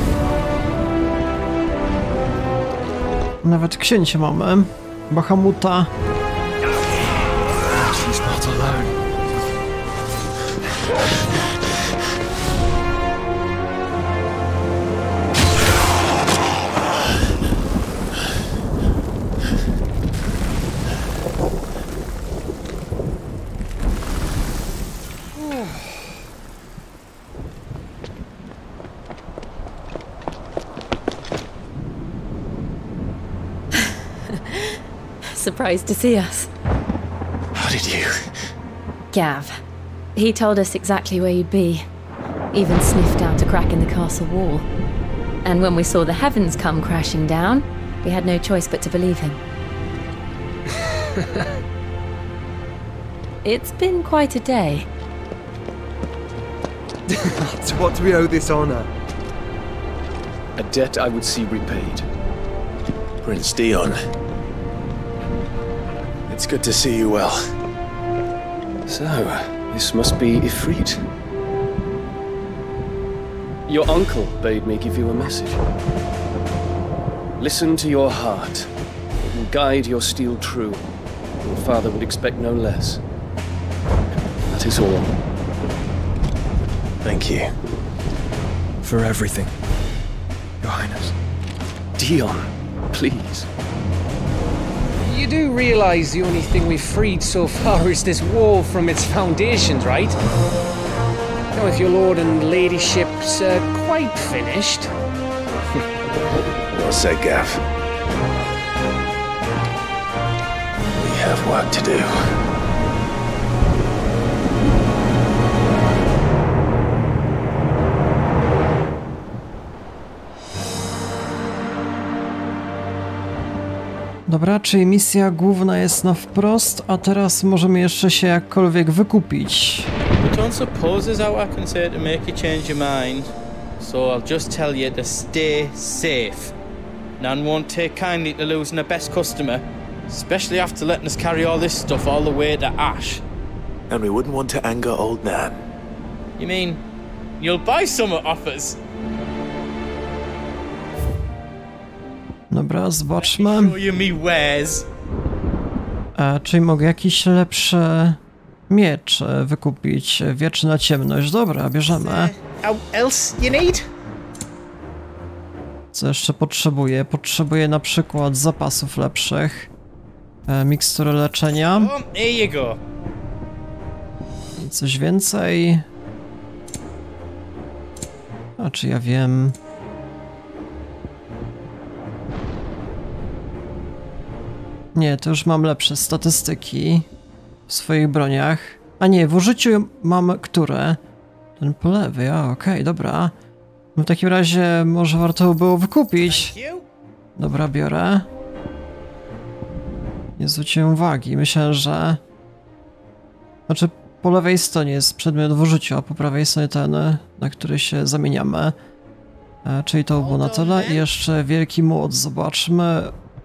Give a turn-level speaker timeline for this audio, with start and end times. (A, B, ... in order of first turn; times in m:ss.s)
0:03.4-0:05.9 A
0:07.7-0:09.0 B
0:34.4-0:34.6 C
0:35.4-0:36.5 C
0:37.6-0:38.2 D
0:39.1-0:39.6 C
0:40.2-0:41.8 C
0:42.5-0:44.7 C
0:45.4-0:49.4 C
0:53.4-0:54.9 C
0:57.1-0:58.9 B
1:00.6-1:02.1 E
1:03.2-1:04.0 D
1:06.3-1:07.4 D
1:08.9-1:11.1 E
1:13.7-1:15.6 E
1:17.4-1:18.7 E
1:19.2-1:20.8 E
1:21.4-1:23.0 E
1:24.5-1:25.1 E
1:27.0-1:27.5 D
1:28.8-1:29.5 B
1:30.6-1:31.1 B
1:32.0-1:33.5 E
1:35.0-1:40.2 F
1:41.5-1:44.9 F
1:46.7-1:47.6 D
1:51.0-1:52.1 D
2:04.3-2:09.9 A
2:10.2-2:13.3 G
2:13.8-2:16.5 G
2:17.2-2:23.2 G
2:23.9-2:25.6 D
2:26.4-2:26.8 G
2:27.4-2:28.8 G
2:32.5-2:33.8 A
2:33.2-2:34.9 G
2:36.2-2:42.3 A
2:41.9-2:43.8 G
2:45.9-2:49.7 A
2:50.5-2:51.9 A
2:51.8-2:52.8 G
2:54.6-2:55.8 A
2:58.6-2:59.6 A
3:05.0-3:07.1 A
3:07.7-3:11.0 A
3:11.6-3:13.3 A
3:14.0-3:16.6 A
3:16.2-3:16.8 G
3:17.4-3:18.3 A
3:20.4-3:22.2 A
3:23.7-3:28.8 A
3:29.6-3:33.1 A
3:30.2-3:31.0 G